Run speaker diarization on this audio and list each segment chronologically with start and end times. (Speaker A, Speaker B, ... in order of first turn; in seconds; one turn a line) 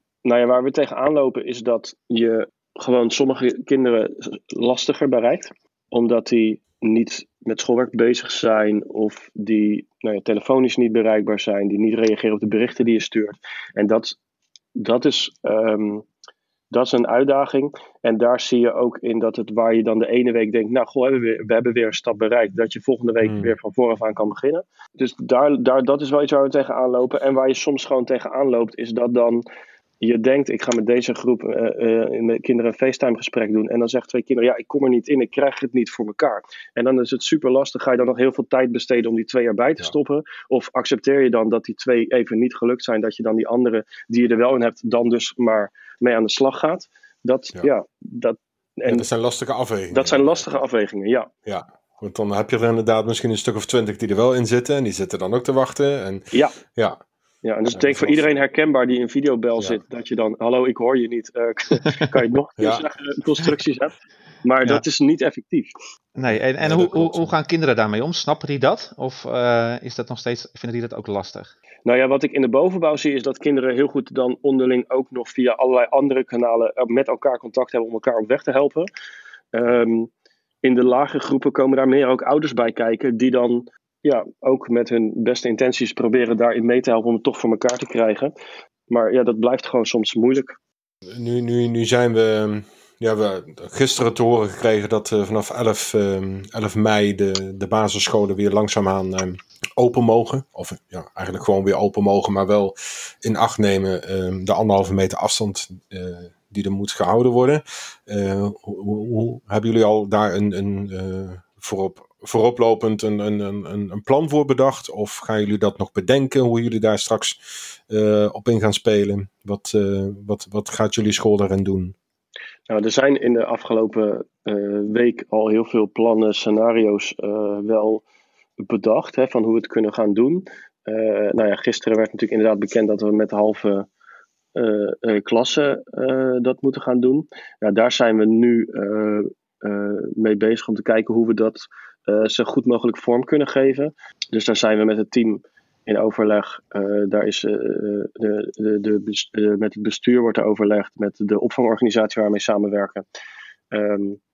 Speaker A: 0.2-14.2
Speaker A: 14.8-16.1
Speaker A: 16.7-29.4
Speaker B: 23.2-23.5
Speaker A: 30.0-49.0
Speaker B: 48.9-50.6
Speaker A: 49.9-51.3
Speaker B: 51.5-57.0
Speaker A: 57.4-65.7
Speaker B: 57.7-58.3
Speaker B: 62.6-62.8
Speaker C: 66.2-71.5
Speaker B: 66.3-67.3
Speaker A: 71.8-78.9
Speaker A: 79.5-80.1
Speaker A: 80.6-88.3
Speaker A: 88.9-90.6
Speaker B: 91.1-117.4
Speaker B: 117.9-122.0
Speaker A: 122.7-128.0
Speaker A: 128.6-133.9
Speaker A: 134.6-153.1
Speaker A: 153.7-154.2